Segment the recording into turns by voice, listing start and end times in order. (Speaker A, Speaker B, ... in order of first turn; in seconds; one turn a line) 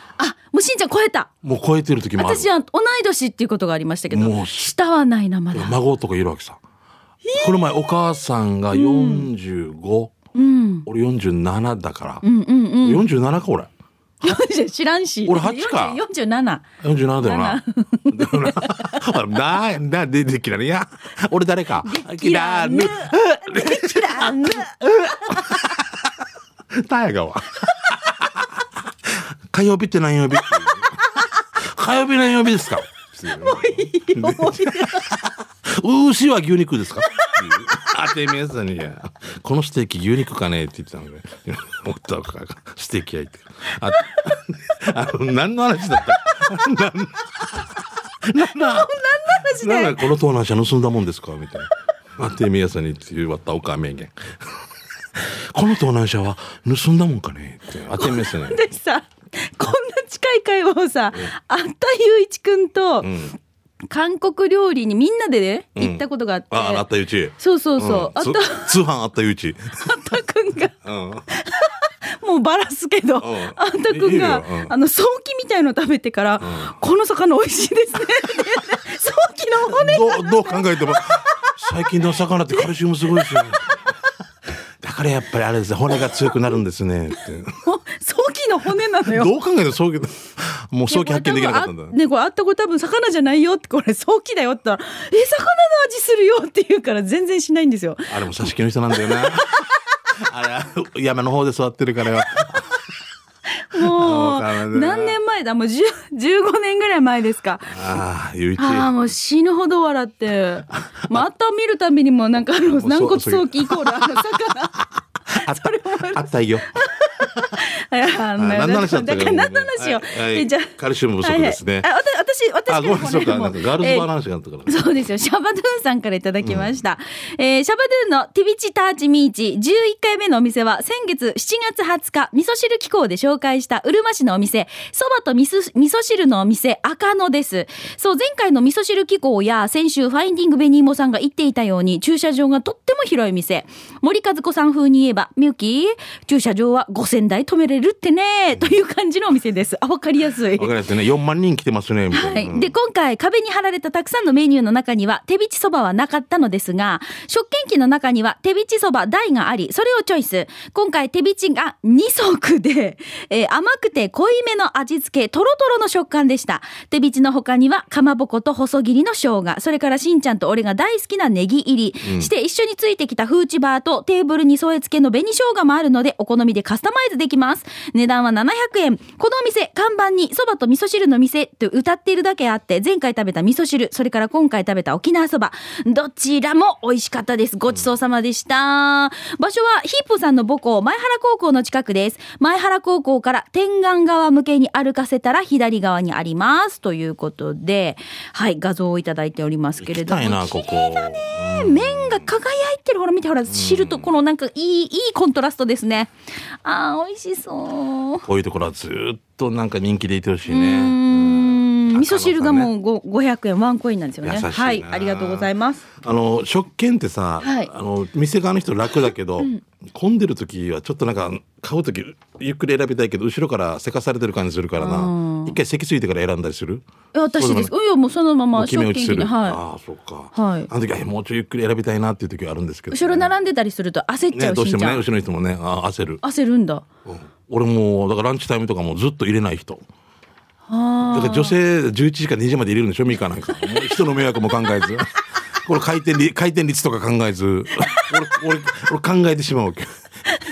Speaker A: 0.2-1.3
Speaker B: 1.4-2.5
Speaker A: 2.2-5.8
Speaker B: 4.1-4.7
Speaker B: 5.5-6.6
Speaker A: 7.2-8.0
Speaker B: 7.4-10.1
Speaker A: 8.7-9.3
Speaker A: 10.3-10.9
Speaker B: 10.9-12.2
Speaker A: 12.2-13.1
Speaker B: 12.8-13.7
Speaker A: 14.2-16.7
Speaker B: 15.3-16.0
Speaker B: 16.8-26.1
Speaker A: 17.2-19.1
Speaker A: 21.8-25.6
Speaker B: 26.7-31.0
Speaker B: 31.6-58.6
Speaker A: 33.3-35.1
Speaker A: 48.4-50.1
Speaker A: 58.0-63.2
Speaker B: 63.0-63.3
Speaker A: 63.9-66.8
Speaker B: 65.8-69.9
Speaker A: 67.4-68.8
Speaker A: 69.8-70.8
Speaker B: 70.8-71.2
Speaker A: 71.3-81.9
Speaker B: 73.2-74.7
Speaker B: 76.4-76.8
Speaker B: 79.7-83.8
Speaker A: 82.5-83.5
Speaker B: 84.8-87.5
Speaker A: 87.6-89.3
Speaker B: 89.0-91.9
Speaker A: 90.9-98.3
Speaker B: 98.1-99.6
Speaker A: 98.9-99.7
Speaker B: 100.2-102.8
Speaker A: 103.7-107.9
Speaker B: 103.8-105.2
Speaker B: 107.7-108.9
Speaker A: 108.6-124.1
Speaker B: 110.8-111.2
Speaker B: 112.7-114.5
Speaker B: 115.3-116.7
Speaker B: 118.4-121.9
Speaker B: 122.7-124.8
Speaker A: 124.7-150.7
Speaker B: 126.4-126.8
Speaker B: 150.6-152.7
Speaker A: 152.1-206.1
Speaker B: 172.0-172.3
Speaker B: 199.8-202.3
Speaker B: 203.5-204.1
Speaker A: 206.6-208.2
Speaker B: 208.2-212.7
Speaker A: 210.5-215.9
Speaker B: 214.2-226.8
Speaker A: 217.4-217.7
Speaker A: 224.8-225.6
Speaker A: 227.1-229.6
Speaker B: 227.4-227.7
Speaker B: 228.5-233.3
Speaker A: 230.3-230.7
Speaker A: 232.9-235.0
Speaker B: 234.3-236.2
Speaker A: 236.2-236.8
Speaker B: 237.1-239.8
Speaker A: 240.7-241.6
Speaker B: 241.0-245.1
Speaker B: 245.6-249.9